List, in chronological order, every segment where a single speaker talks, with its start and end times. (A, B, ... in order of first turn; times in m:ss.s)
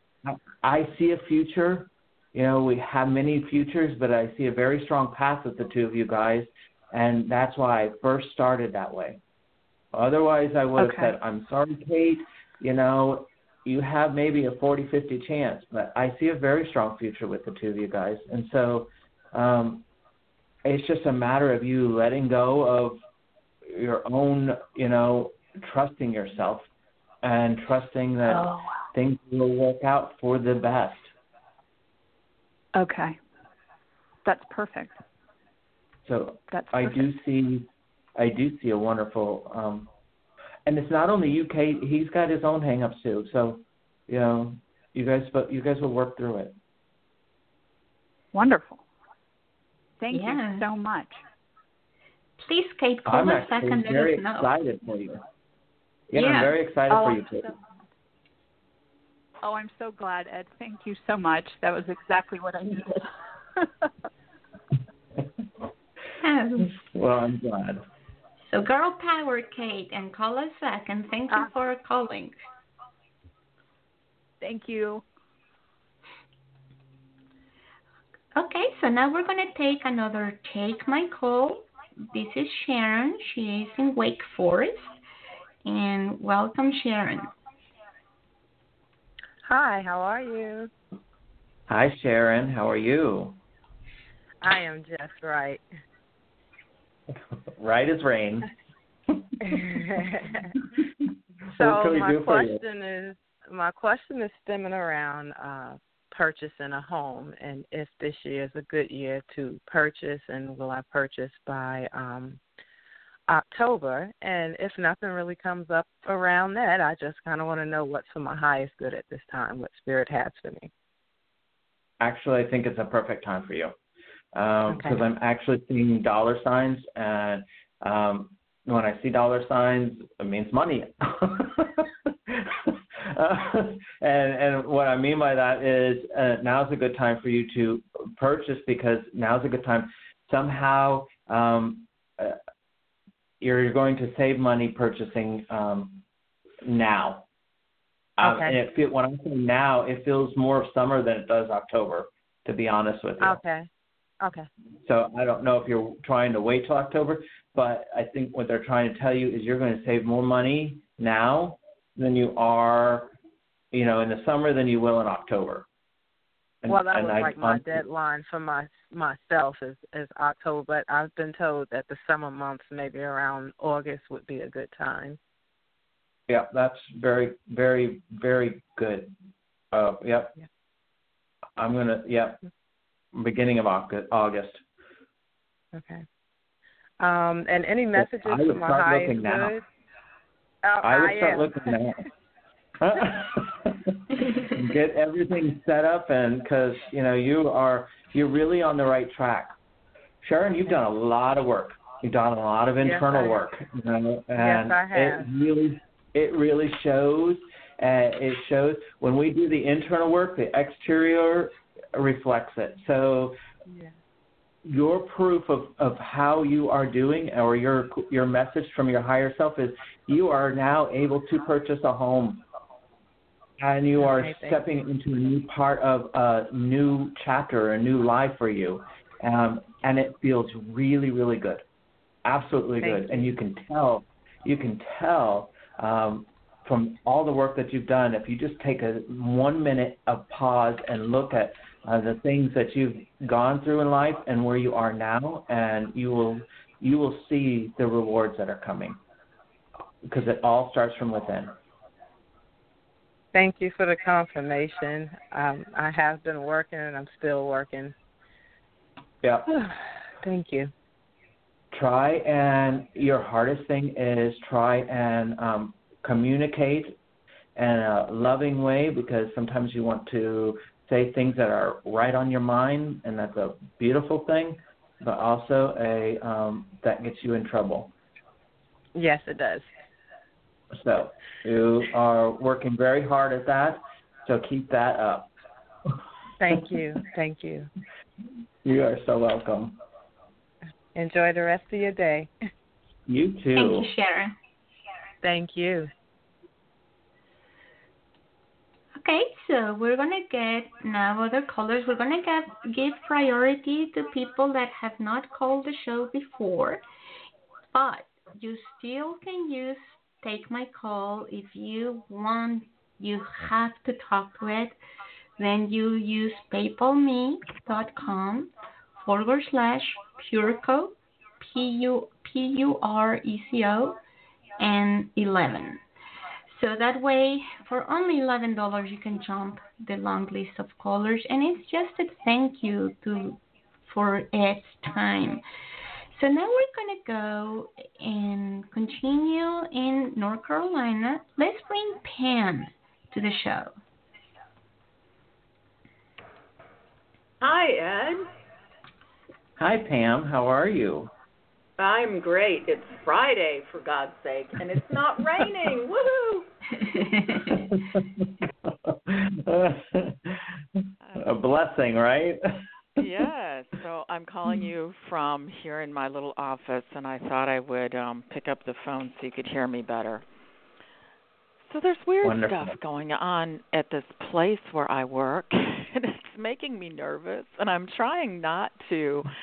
0:00.2-0:09.2 A
0:09.9-0:19.8 A
0:10.8-0:11.1 B
0:20.6-0:23.0 A
0:23.7-0:26.7 A
0:27.2-0:31.1 A
0:28.3-0:28.8 B
0:32.7-0:33.2 B
0:34.2-0:35.0 B
0:36.1-0:39.9 A
0:36.5-0:37.1 B
0:40.7-0:46.6 A
0:48.3-0:48.8 B
0:50.0-0:51.2 B
0:50.1-0:50.6 C
0:52.4-0:54.5 C
0:53.1-0:55.2 A
0:56.1-0:57.5 A
0:56.1-0:56.6 C
0:59.4-1:03.9 B
1:06.2-1:06.8 C
1:06.6-1:07.8 A
1:08.4-1:12.4 C
1:14.4-1:15.0 B
1:18.4-1:25.0 C
1:25.6-1:27.3 C
1:29.5-1:30.7 D
1:31.7-1:33.4 A
1:34.4-1:35.6 D
1:37.5-1:38.5 A
1:39.2-1:39.7 A
1:39.5-1:40.5 D
1:41.5-1:42.6 A
1:41.6-1:52.4 D
1:53.3-2:00.7 D
2:02.0-2:03.7 A
2:04.3-2:22.4 A
2:04.7-2:05.0 D
2:23.4-2:26.0 A
2:26.6-2:27.3 A
2:28.2-2:33.4 A
2:28.2-2:28.6 D
2:33.2-2:33.7 D
2:34.2-2:34.5 D
2:34.8-2:43.1 A
2:43.7-2:45.7 A
2:46.6-2:47.8 A
2:46.7-2:55.2 D
2:56.3-2:59.1 A
2:59.7-3:00.3 A
3:01.6-3:02.4 A
3:03.1-3:04.6 A
3:05.7-3:06.0 D
3:07.0-3:09.6 D
3:07.9-3:09.6 A
3:10.6-3:11.6 D
3:10.8-3:12.0 A
3:12.8-3:19.6 A
3:20.2-3:33.4 A
3:22.8-3:23.4 D
3:24.4-3:25.3 D
3:34.7-3:42.4 A
3:43.6-3:51.6 A
3:44.0-3:44.6 D
3:52.2-4:09.0 A
3:52.8-3:53.2 D
4:10.0-4:11.6 A
4:13.3-4:18.0 D
4:19.2-4:19.5 A
4:19.5-4:20.7 D
4:21.7-4:27.0 A
4:27.6-4:37.9 A
4:39.0-4:39.7 D
4:40.7-4:45.3 A
4:46.4-4:47.7 D
4:48.6-4:49.8 A
4:51.0-4:52.3 D
4:53.1-4:53.9 A
4:53.6-4:54.4 C
4:55.2-4:55.9 D
4:59.0-5:06.8 C
5:07.7-5:14.8 C
5:15.4-5:18.5 C
5:19.0-5:24.0 C
5:24.6-5:25.8 C
5:26.5-5:35.4 C
5:36.1-5:43.8 C
5:47.4-5:48.3 E
5:49.6-5:51.1 A
5:51.8-5:56.5 E
5:57.5-6:00.5 A
6:01.2-6:02.4 A
6:03.0-6:10.2 F
6:11.6-6:19.3 F
6:12.2-6:12.8 A